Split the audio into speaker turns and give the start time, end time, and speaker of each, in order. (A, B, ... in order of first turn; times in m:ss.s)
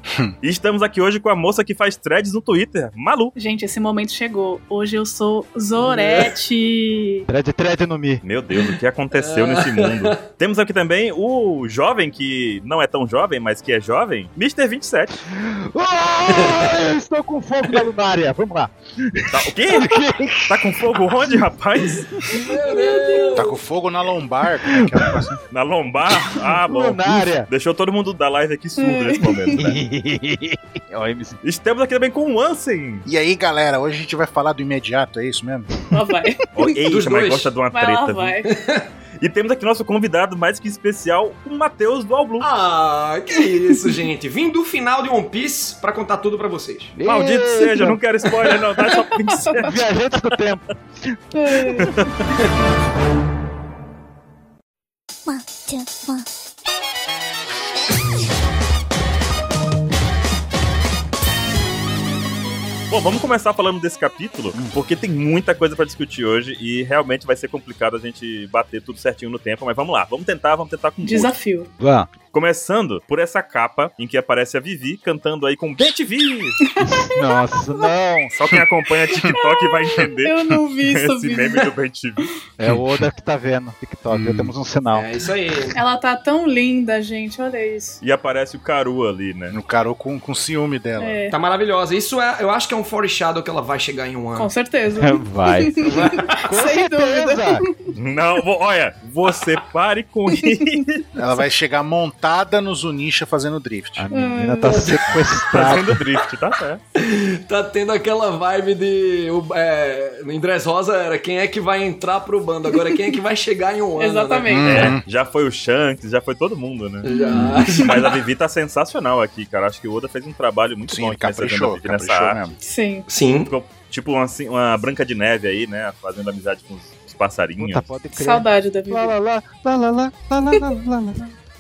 0:00.4-0:03.4 A
0:03.4-0:07.3 B
0:05.8-0:06.3 C
0:07.3-0:08.2 D
0:08.2-0:15.2 A
0:09.1-0:10.2 C
0:15.3-0:20.6 D
0:16.3-0:16.7 C
0:19.3-0:22.1 A
0:22.3-0:23.4 B
0:22.3-0:23.6 C
0:23.4-0:25.4 E
0:24.7-0:25.3 D
0:25.5-0:29.8 A
0:26.6-0:27.5 D
0:28.8-0:29.6 B
0:29.6-0:31.4 D
0:31.4-0:33.1 A
0:33.1-0:35.8 E
0:35.9-0:36.8 B
0:36.6-0:38.4 A
0:36.9-0:37.5 C
0:37.7-0:38.5 B
0:38.4-0:38.9 C
0:39.2-0:42.5 A
0:42.4-0:47.0 C
0:47.0-0:48.0 D
0:47.1-0:50.4 A
0:48.9-0:49.7 B
0:49.6-0:51.9 D
0:51.3-0:52.1 B
0:51.8-0:52.2 A
1:02.9-1:11.3 A
1:11.0-1:11.7 B
1:11.8-1:12.1 D
1:12.3-1:16.6 A
1:16.7-1:17.9 B
1:16.8-1:18.3 D
1:18.3-1:22.3 A
1:19.2-1:21.7 B
1:22.6-1:25.1 D
1:24.1-1:24.5 E
1:24.9-1:25.8 C
1:25.7-1:28.0 B
1:28.0-1:29.6 A
1:29.5-1:31.2 E
1:31.0-1:31.4 B
1:31.3-1:34.5 C
1:34.4-1:37.9 B
1:35.0-1:37.6 D
1:35.9-1:36.4 C
1:38.0-1:41.0 A
1:41.2-1:44.1 E
1:44.0-1:46.0 D
1:44.1-1:45.0 B
1:44.6-1:45.2 C
1:45.5-1:46.8 A
1:47.0-1:54.6 C
1:54.0-1:54.9 B
1:54.5-1:55.0 E
1:54.6-1:57.1 A
1:57.0-1:58.2 C
1:57.1-1:58.1 B
1:57.3-1:57.7 E
1:57.8-2:02.5 A
2:00.9-2:02.6 E
2:02.6-2:03.1 B
2:03.1-2:03.5 C
2:03.5-2:07.9 A
2:07.6-2:11.3 D
2:08.1-2:09.2 B